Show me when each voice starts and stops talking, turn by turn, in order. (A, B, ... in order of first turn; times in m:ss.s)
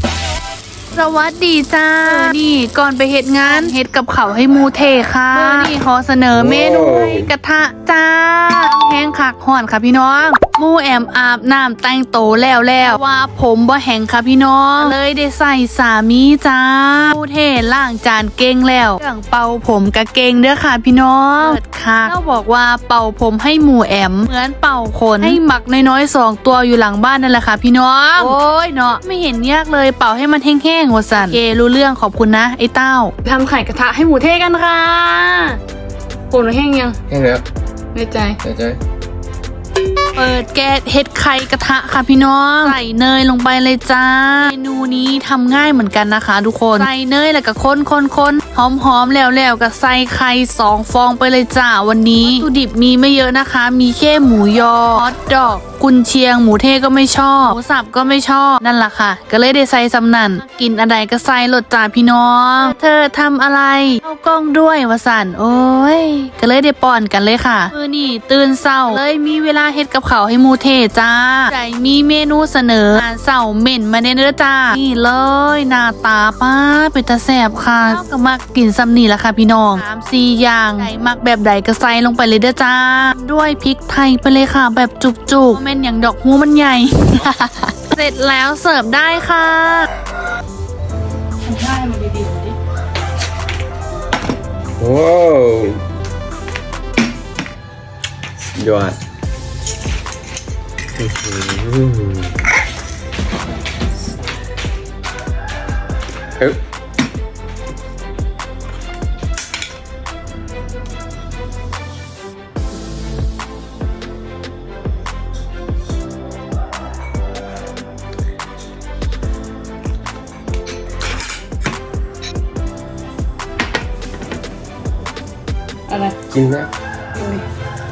0:00.9-0:33.1 A
0:06.3-0:07.3 B
0:33.2-0:35.6 C
0:36.3-0:37.0 C
0:37.1-0:37.4 B
0:37.9-0:38.4 C
0:38.4-0:38.8 B
0:40.2-1:29.9 A
1:31.4-1:32.5 C
1:34.8-1:35.8 B
1:38.6-1:39.0 B
1:41.0-1:42.3 B
2:05.9-2:06.2 C
2:06.3-2:06.7 B
2:07.2-2:07.4 C